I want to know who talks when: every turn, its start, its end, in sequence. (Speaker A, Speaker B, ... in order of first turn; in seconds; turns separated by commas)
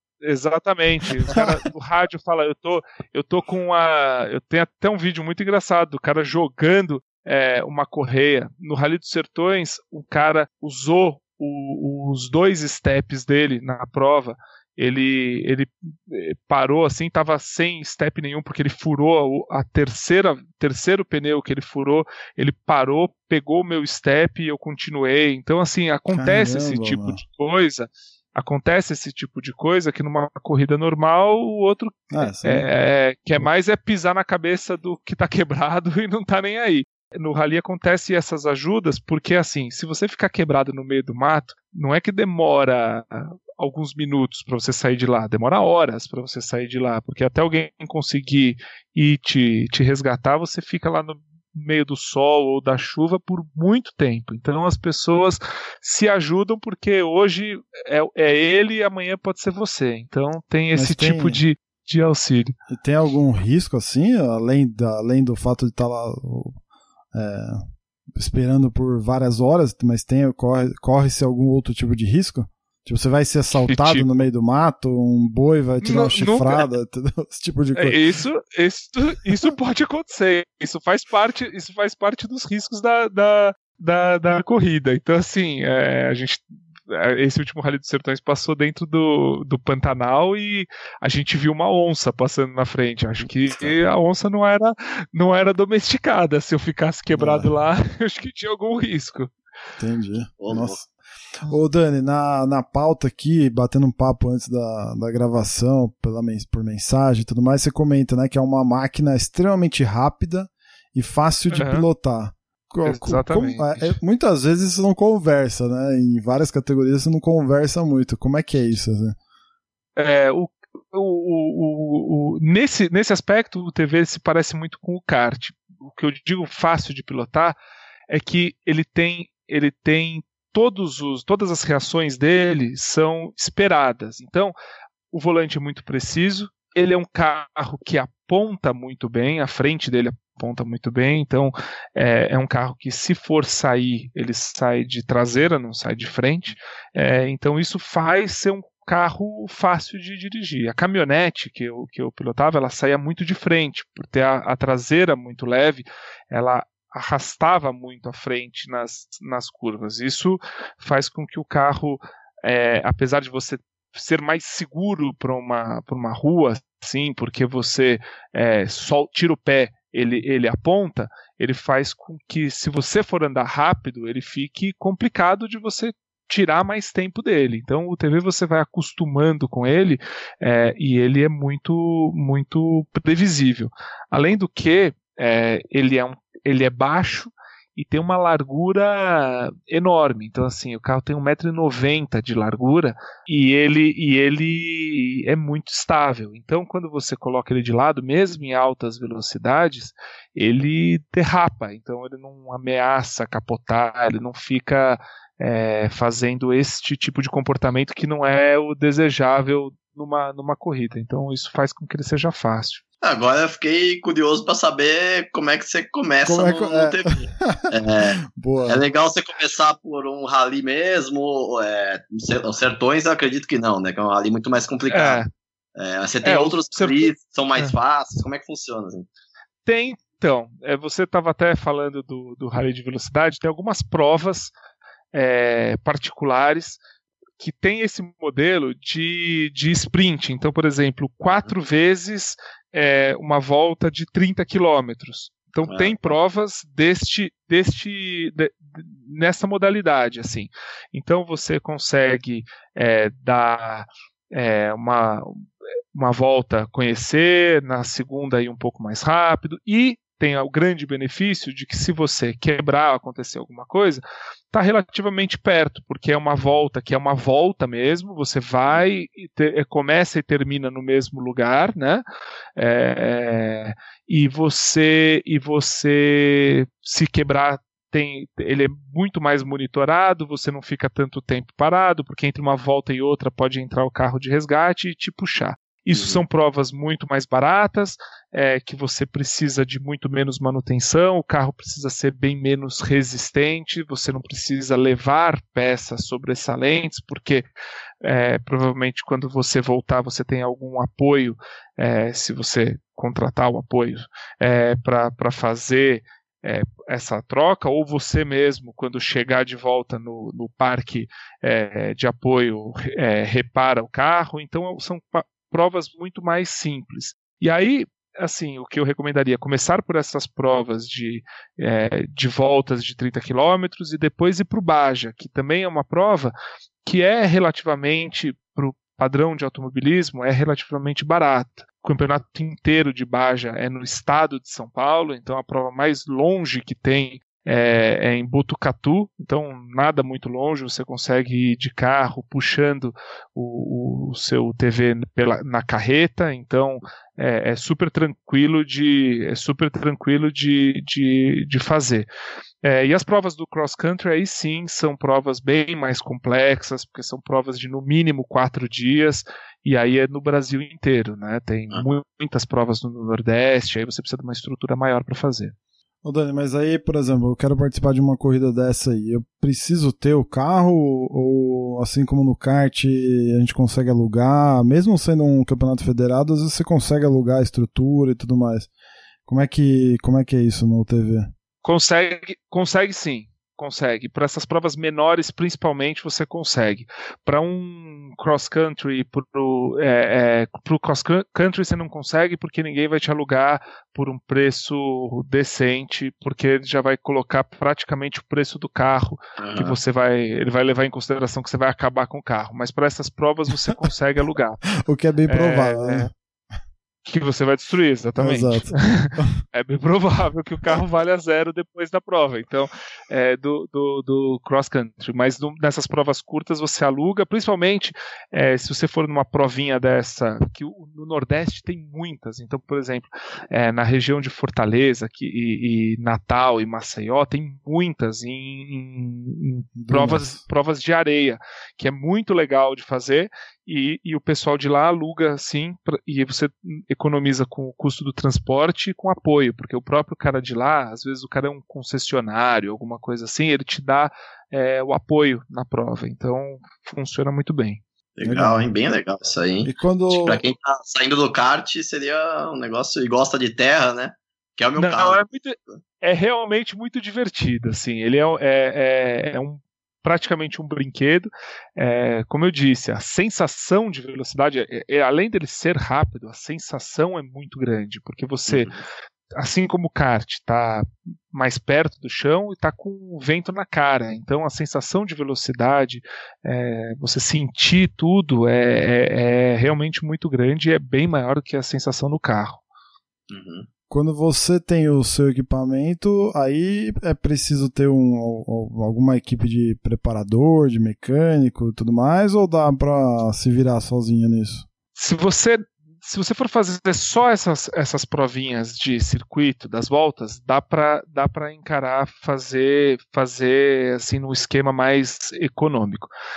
Speaker A: 0.2-62.5, Speaker B: 26.1-27.2, Speaker B: 32.1-32.7, Speaker B: 60.7-61.4, Speaker B: 62.7-66.6, Speaker B: 67.1-67.6, Speaker B: 68.2-78.0, Speaker A: 73.6-74.1, Speaker A: 75.8-76.7, Speaker A: 77.8-99.3, Speaker B: 93.2-93.8, Speaker B: 97.1-97.5, Speaker B: 99.8-100.9, Speaker C: 100.4-100.8, Speaker B: 101.4-119.2, Speaker A: 111.5-111.9, Speaker A: 112.8-114.0, Speaker A: 120.0-127.6, Speaker A: 128.1-134.5, Speaker A: 135.1-212.8, Speaker C: 213.0-225.2, Speaker B: 216.2-217.7, Speaker B: 218.3-218.8, Speaker A: 224.9-225.3, Speaker C: 225.8-229.1, Speaker A: 226.2-227.8, Speaker A: 229.7-234.5, Speaker A: 235.1-236.8, Speaker A: 237.4-272.0, Speaker C: 245.7-246.2, Speaker A: 272.6-297.5, Speaker C: 285.9-286.2, Speaker A: 298.0-352.1, Speaker A: 352.6-365.6, Speaker B: 366.0-378.7, Speaker B: 379.3-381.3, Speaker A: 381.6-404.6, Speaker C: 399.4-399.8, Speaker B: 404.8-406.1, Speaker A: 405.3-406.1, Speaker A: 407.0-447.8, Speaker B: 408.2-409.4, Speaker B: 429.8-430.4, Speaker C: 448.2-455.2, Speaker B: 448.2-448.6, Speaker B: 449.6-450.4, Speaker A: 454.8-468.7, Speaker C: 468.5-468.8, Speaker A: 469.4-482.6, Speaker C: 483.3-483.7, Speaker B: 483.9-494.7, Speaker A: 494.9-506.1